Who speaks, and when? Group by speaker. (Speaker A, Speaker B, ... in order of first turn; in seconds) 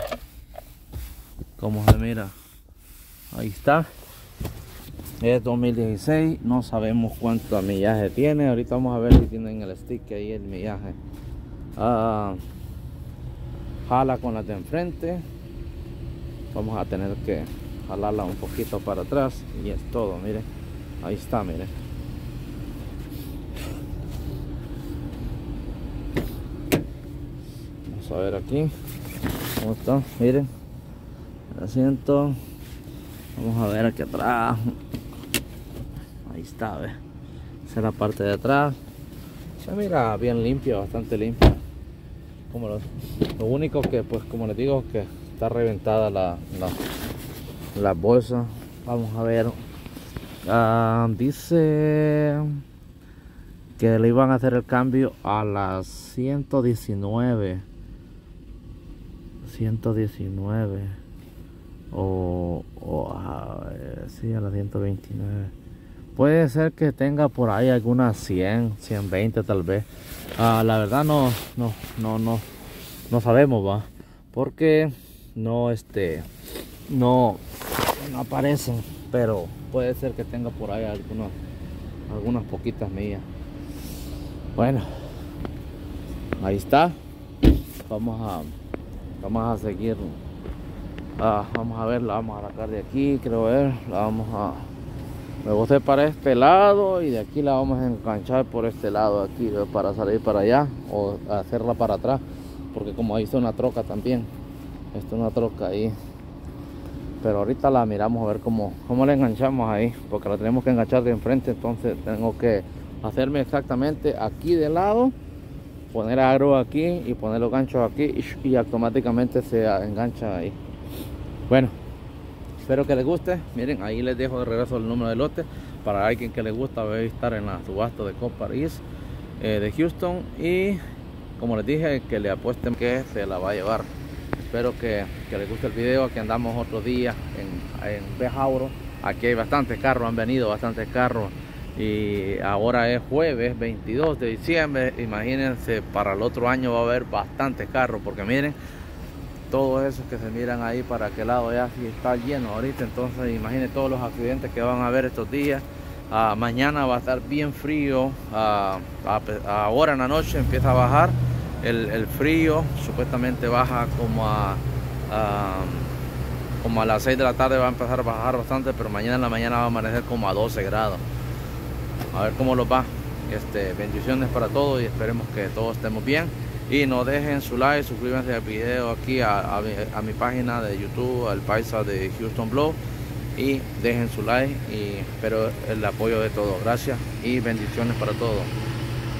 Speaker A: 1.6-2.3, 3.3-3.9, 5.2-11.0, 11.8-12.4, 13.8-15.2, 16.5-20.5, 21.0-21.7, 27.9-28.7, 29.5-30.5, 31.5-32.4, 33.4-34.7, 36.2-37.0, 37.6-38.8, 39.6-41.6, 42.5-46.8, 47.7-49.6, 50.4-52.6, 53.8-57.6, 59.4-61.0, 61.9-65.5, 66.2-72.5, 73.1-76.3, 76.9-81.3, 82.1-83.2, 84.5-84.9, 86.4-87.0, 87.8-88.5, 89.2-90.2, 91.2-94.7, 95.4-102.2, 102.7-104.3, 104.9-105.9, 107.2-115.1, 115.9-120.5, 121.5-121.7, 122.6-128.8, 129.4-130.8, 131.4-133.9, 134.5-148.6, 149.5-165.9, 166.6-171.0, 172.1-182.8, 183.3-188.5